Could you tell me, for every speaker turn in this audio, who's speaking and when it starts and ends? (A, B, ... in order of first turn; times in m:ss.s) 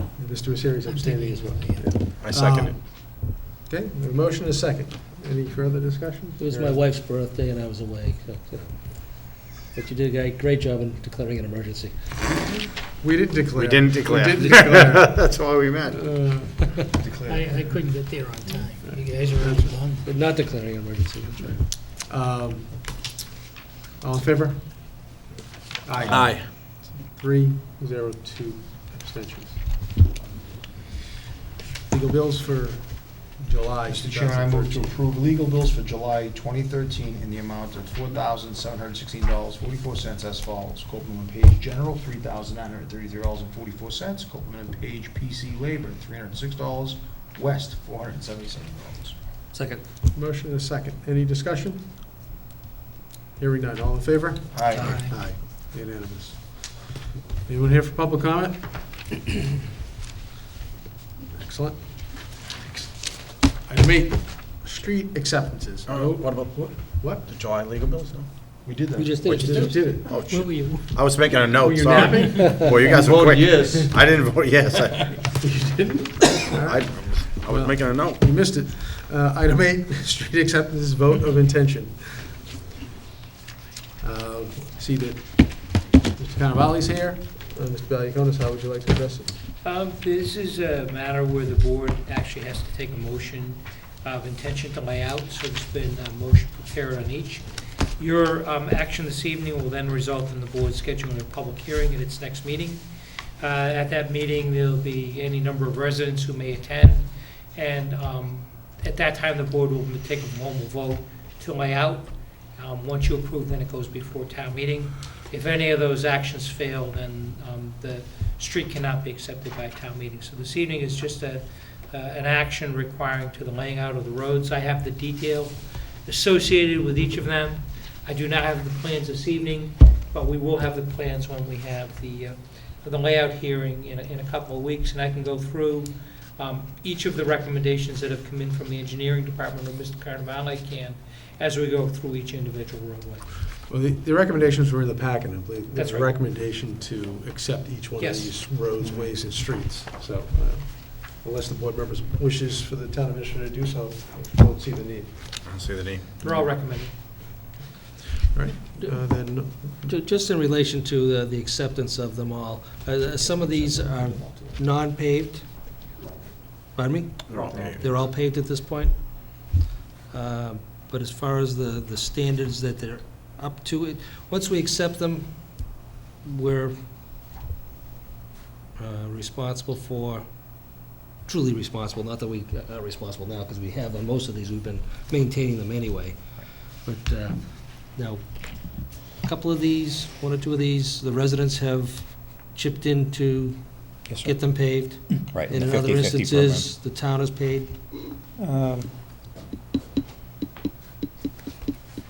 0:00.1-0:06.8 A
0:00.9-0:01.8 B
0:02.2-0:02.8 C
0:06.4-0:11.9 D
0:12.8-0:15.3 A
0:13.6-0:15.9 C
0:15.9-0:17.6 A
0:17.0-0:17.4 E
0:17.3-0:20.0 B
0:17.6-0:17.9 F
0:18.4-0:19.1 F
0:18.8-0:19.7 A
0:20.0-0:21.6 D
0:21.5-0:23.0 A
0:24.0-0:25.1 A
0:25.8-0:29.6 A
0:26.0-0:26.3 E
0:26.1-0:26.5 C
0:31.9-0:34.9 A
0:33.9-0:49.1 E
0:49.5-0:49.8 D
0:50.1-0:51.9 A
0:53.4-0:58.9 A
0:54.5-0:55.0 E
1:01.3-1:07.3 A
1:05.9-1:08.6 C
1:08.6-1:09.3 E
1:08.9-1:09.8 D
1:09.2-1:15.3 C
1:09.3-1:10.0 A
1:11.6-1:12.5 A
1:12.3-1:12.8 D
1:12.4-1:13.3 E
1:13.3-1:13.9 A
1:15.3-1:22.5 A
1:16.2-1:18.2 C
1:24.0-1:29.4 A
1:29.6-1:37.4 F
1:38.0-1:42.8 F
1:43.4-2:23.4 F
2:23.7-2:35.4 A
2:25.7-2:26.1 F
2:28.0-2:28.3 F
2:35.4-2:36.2 C
2:36.2-2:36.9 F
2:38.0-2:39.9 A
2:39.7-2:45.4 D
2:43.7-2:44.5 E
2:46.7-2:49.5 D
2:47.3-2:47.8 C
2:47.4-2:47.7 E
2:50.1-2:56.8 D
2:58.8-3:17.7 D
3:15.1-3:16.7 G
3:18.4-3:18.9 G